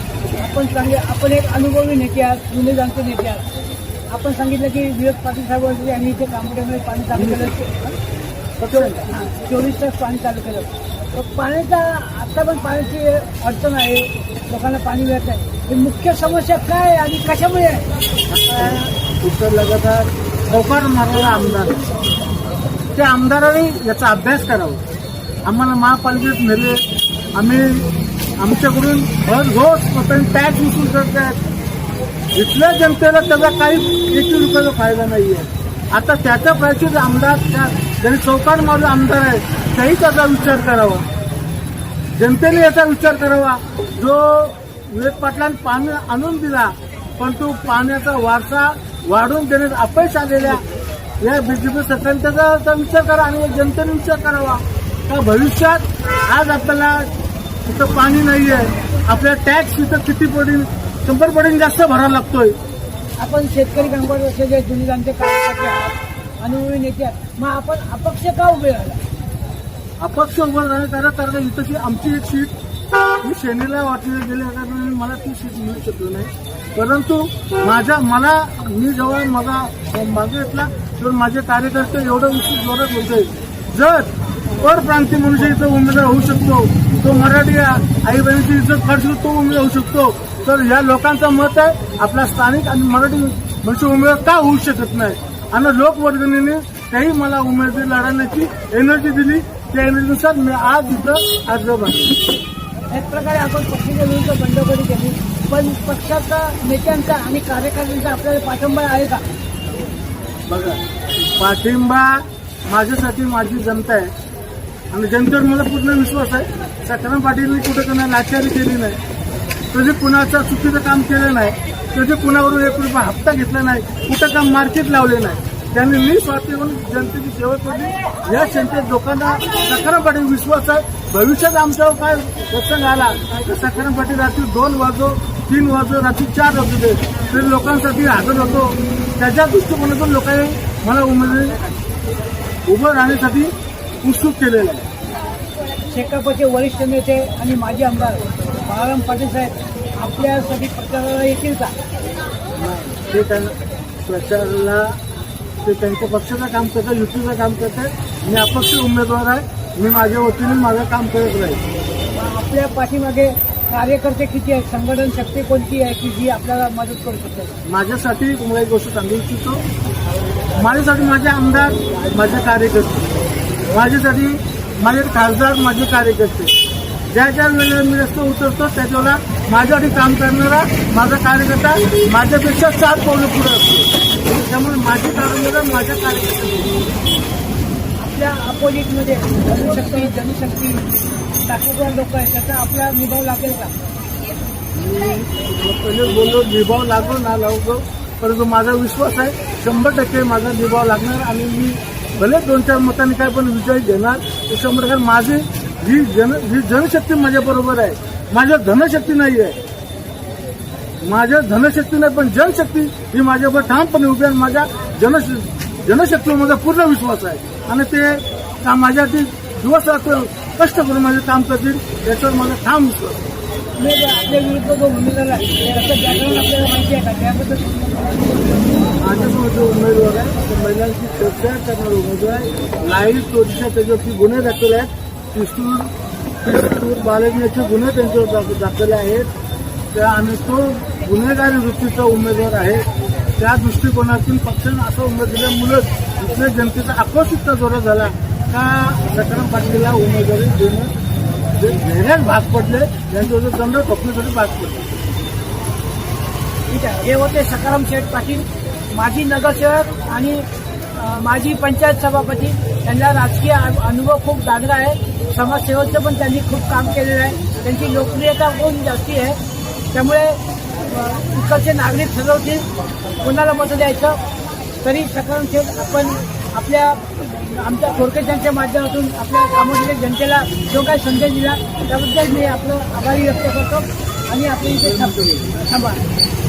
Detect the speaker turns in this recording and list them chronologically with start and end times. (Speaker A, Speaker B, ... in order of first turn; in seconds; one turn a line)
Speaker A: 0.3-3.5
Speaker A: 4.1-8.0
Speaker B: 7.2-7.5
Speaker B: 8.6-9.1
Speaker A: 8.7-17.9
Speaker B: 18.3-21.9
Speaker B: 23.0-24.8
Speaker B: 25.5-26.8
Speaker B: 27.4-27.9
Speaker B: 28.4-31.4
Speaker B: 32.3-41.1
Speaker B: 42.2-50.6
Speaker B: 51.2-57.1
Speaker B: 57.7-62.6
Speaker A: 63.2-69.0
Speaker B: 70.0-72.5
Speaker B: 73.2-102.2
Speaker A: 102.9-109.2
Speaker B: 110.5-114.1
Speaker B: 114.9-119.0
Speaker B: 119.7-141.6
Speaker B: 142.7-144.9
Speaker A: 145.9-151.8
Speaker B: 152.6-155.0
Speaker B: 155.6-161.6
Speaker A: 162.1-167.5
Speaker B: 167.7-169.6
Speaker B: 170.6-173.1
Speaker B: 173.7-176.5
Speaker B: 177.1-186.8
Speaker A: 188.0-190.8
Speaker A: 191.5-193.7
Speaker B: 194.7-209.6
Speaker B: 211.0-223.2
Speaker A: 223.8-228.2
Speaker B: 229.0-239.3
Speaker B: 239.9-242.9
Speaker B: 243.4-250.9
Speaker B: 251.6-254.9
Speaker A: 256.7-260.5
Speaker A: 261.0-269.4
Speaker A: 269.9-272.7
Speaker A: 273.2-274.2
Speaker A: 274.8-286.0
Speaker B: 284.8-285.6